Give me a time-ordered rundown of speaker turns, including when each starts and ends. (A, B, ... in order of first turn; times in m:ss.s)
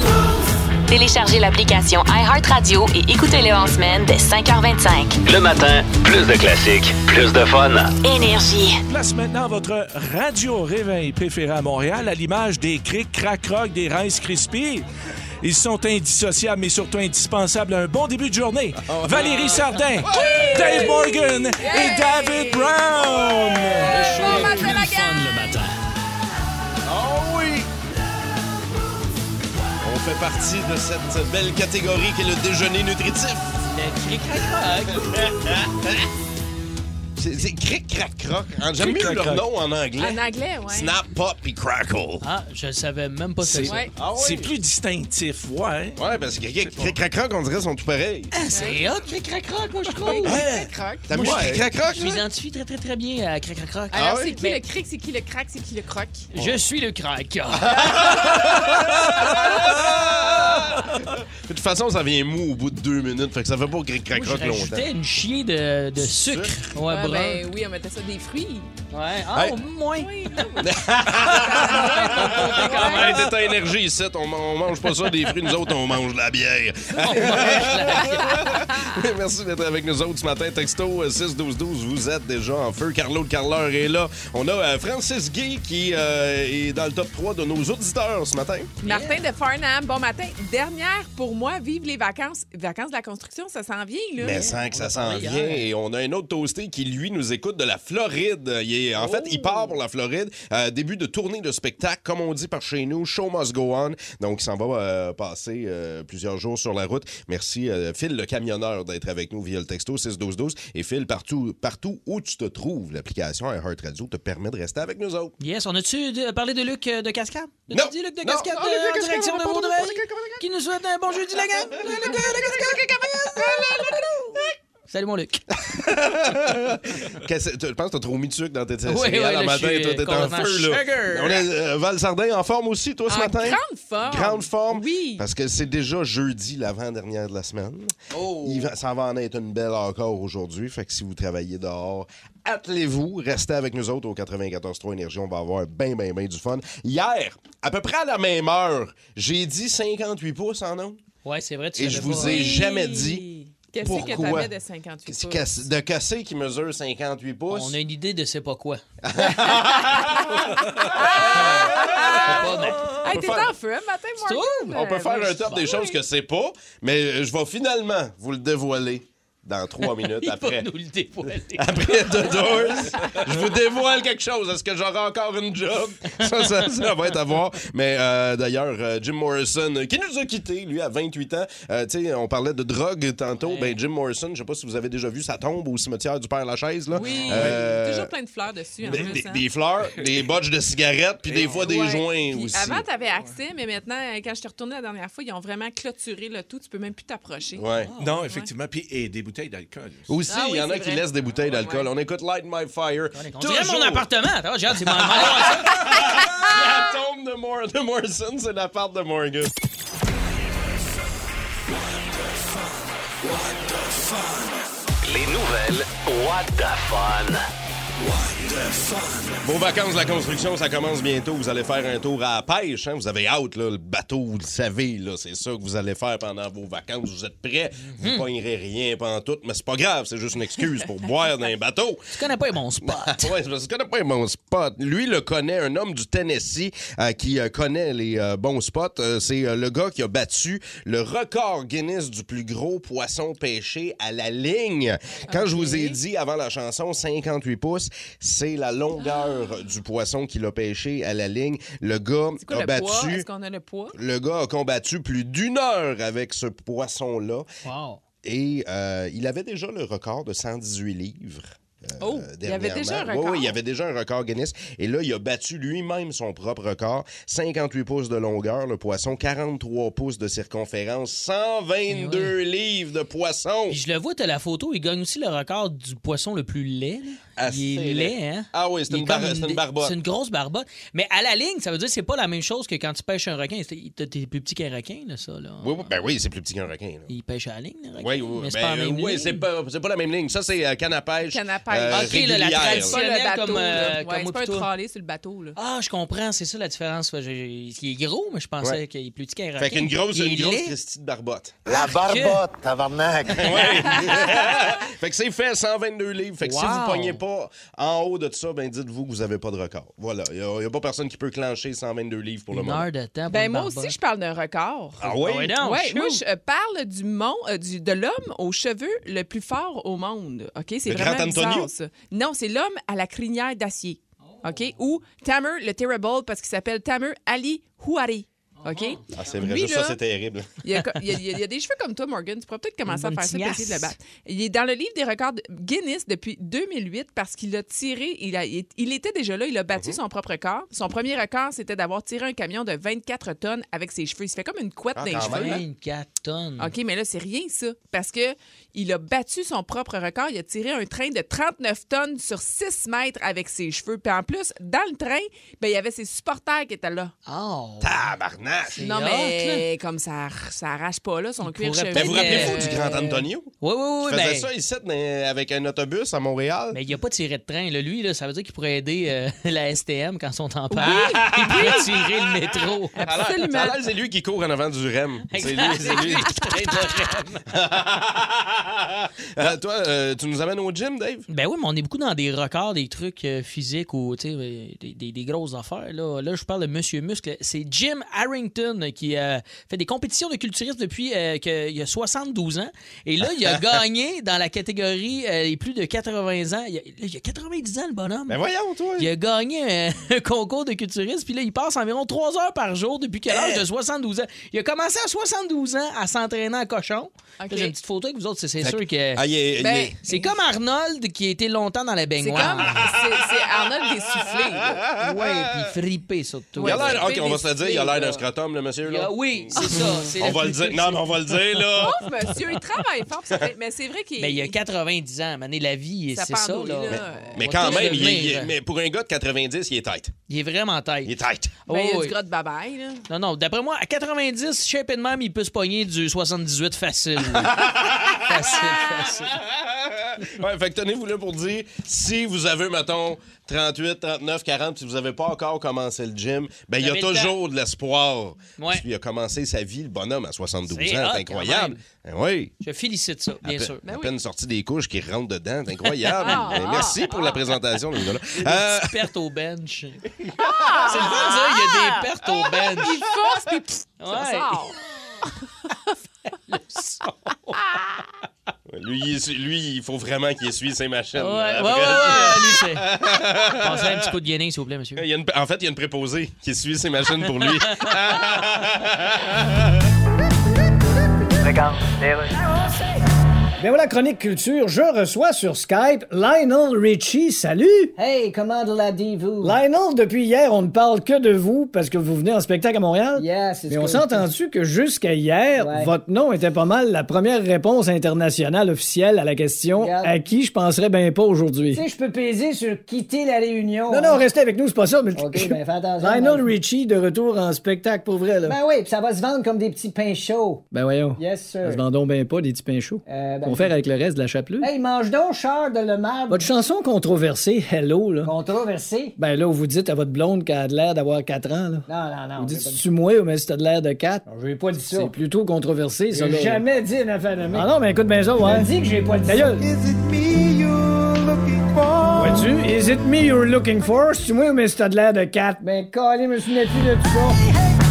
0:00.9-0:05.2 A
0:05.2-0:07.9 B
0:08.0-0:08.8 A
0:08.9-0:14.8 C
0:15.4-0:25.2 C
0:18.8-0:21.0 D
0:20.1-0:25.3 E
0:24.0-0:24.9 F
0:26.8-0:27.7 D
0:29.8-0:33.6 D
0:33.6-0:35.3 F
0:34.9-0:36.0 D
0:37.2-0:42.2 D
0:38.8-0:39.4 C
0:40.0-0:41.0 E
0:42.2-0:43.8 F
0:43.4-0:46.0 C
0:44.0-0:44.5 D
0:46.0-0:48.3 D
0:48.3-0:50.4 F
0:48.5-0:48.8 E
0:50.0-0:51.4 E
0:51.1-0:52.2 D
0:51.1-0:51.6 C
0:51.2-0:54.6 F
0:53.9-0:54.3 D
0:53.9-0:56.3 E
0:56.3-0:58.0 F
0:57.8-1:04.9 D
0:57.8-0:58.4 E
0:59.3-0:59.7 E
1:04.1-1:07.4 F
1:06.0-1:06.5 D
1:06.9-1:08.7 E
1:08.9-1:10.1 F
1:09.9-1:10.7 E
1:10.6-1:28.7 D
1:11.3-1:13.3 E
1:11.6-1:13.2 F
1:16.9-1:18.4 F
1:28.8-1:34.4 E
1:28.8-1:29.2 F
1:34.2-1:55.3 D
1:34.2-1:35.6 F
1:39.0-1:39.5 F
1:55.4-2:03.5 F
1:57.7-2:00.4 D
2:01.8-2:04.0 D
2:04.9-2:05.4 F
2:05.6-2:31.0 D
2:08.9-2:11.4 F
2:13.1-2:15.2 E
2:31.2-2:32.5 F
2:31.7-2:33.2 D
2:32.0-2:35.6 E
2:33.8-2:34.5 D
2:33.8-2:34.5 F
2:35.1-2:37.8 D
2:37.5-2:38.8 F
2:39.0-2:42.4 D
2:40.9-2:45.9 E
2:41.4-2:43.0 F
2:42.9-2:43.5 D
2:44.2-2:44.7 F
2:44.7-2:50.6 D
2:49.8-2:52.6 F
2:51.6-3:08.1 D
2:56.2-2:56.6 F
3:03.4-3:03.8 F
3:06.9-3:09.4 E
3:07.0-3:07.5 F
3:08.8-3:12.8 D
3:11.3-3:11.7 C
3:11.4-3:17.7 E
3:17.5-3:17.9 D
3:17.8-3:18.2 F
3:18.0-3:20.2 C
3:18.2-3:18.5 E
3:20.1-3:24.0 D
3:20.2-3:21.9 E
3:23.1-3:25.8 F
3:25.0-3:29.5 D
3:35.0-3:37.4 B
3:39.4-3:52.1 D
3:47.9-3:48.2 F
3:52.1-3:53.3 F
3:52.8-4:13.2 D
4:05.3-4:06.0 E
4:09.0-4:09.4 E
4:12.4-4:13.9 E
4:13.9-4:17.4 D
4:17.6-4:18.0 F
4:18.2-4:33.8 D
4:22.0-4:23.6 E
4:31.9-4:32.3 F
4:33.7-4:45.9 F
4:37.4-4:39.9 D
4:45.6-4:47.1 D
4:47.1-4:49.4 F
4:48.0-4:53.0 D
4:51.3-4:55.6 E
4:51.9-4:54.7 F
4:55.6-5:00.7 F
4:59.6-5:01.6 D
5:01.6-5:03.5 G
5:01.9-5:02.4 F
5:03.3-5:04.4 F
5:03.4-5:12.8 D
5:06.4-5:07.2 F
5:12.5-5:13.9 F
5:13.3-5:30.0 E
5:15.0-5:15.6 D
5:15.2-5:16.2 F
5:20.8-5:21.7 D
5:24.2-5:24.5 F
5:28.6-5:29.0 F
5:29.1-5:30.5 D
5:30.6-5:45.6 E
5:32.9-5:33.9 F
5:39.7-5:40.0 D
5:45.0-5:45.6 D
5:45.1-5:46.7 F
5:46.6-5:57.1 E
5:57.2-5:58.0 F
5:57.8-5:58.8 D
5:58.7-5:59.6 F
5:58.8-6:02.9 E
6:01.4-6:04.5 F
6:01.9-6:03.5 D
6:04.0-6:06.8 D
6:06.7-6:12.9 F
6:10.7-6:11.8 E
6:10.9-6:11.7 D
6:12.9-6:13.8 E
6:13.0-6:21.3 D
6:15.3-6:17.4 F
6:21.3-6:38.4 F
6:33.2-6:33.8 D
6:38.3-6:39.1 D
6:39.0-6:49.2 F
6:43.3-6:43.6 D
6:47.4-6:47.7 E
6:48.6-6:49.9 D
6:49.6-6:50.3 E
6:50.0-6:52.9 F
6:52.2-6:54.9 E
6:52.6-6:53.0 D
6:54.7-6:55.5 D
6:55.0-6:57.1 F
6:56.6-6:58.2 E
6:56.6-7:02.0 D
6:58.9-7:01.8 F
7:01.8-7:04.5 E
7:04.2-7:08.5 F
7:06.1-7:08.2 E
7:06.9-7:10.1 D
7:10.3-7:11.1 F
7:11.0-7:11.6 D
7:11.7-7:12.1 F
7:11.7-7:13.0 E
7:13.1-7:17.7 F
7:17.3-7:18.3 D
7:18.2-7:19.4 F
7:19.3-7:32.5 D
7:26.8-7:27.3 F
7:28.6-7:28.8 F
7:30.7-7:31.8 F
7:32.6-7:33.8 F
7:33.4-7:39.0 D
7:33.8-7:34.1 E
7:36.2-7:37.5 E
7:36.2-7:36.8 F
7:38.4-7:40.1 F
7:40.4-7:42.0 E
7:40.8-7:43.0 F
7:42.8-7:44.8 E
7:44.0-7:44.5 F
7:46.5-7:47.6 F
7:48.7-7:54.1 D
7:51.2-7:52.9 F
7:53.6-7:55.0 F
7:55.0-7:59.7 D
7:57.3-7:57.9 F
8:03.6-8:07.9 H
8:08.0-8:09.6 I
8:09.4-8:21.8 H
8:13.2-8:14.2 I
8:15.6-8:15.9 I
8:19.8-8:20.1 I
8:21.7-8:24.2 I
8:23.9-8:28.6 H
8:25.2-8:26.5 I
8:28.4-8:31.8 I
8:30.7-8:34.7 H
8:33.0-8:33.7 I
8:34.6-8:36.5 I
8:36.3-8:38.3 H
8:38.2-8:39.2 I
8:39.2-8:41.8 H
8:41.8-8:42.8 I
8:42.4-8:44.2 H
8:44.2-8:45.1 I
8:44.9-8:46.6 H
8:46.1-8:47.7 I
8:47.5-8:49.6 H
8:48.4-8:49.3 I
8:49.3-8:52.4 G
8:52.1-8:55.6 H
8:55.6-8:57.2 I
8:56.8-8:57.3 H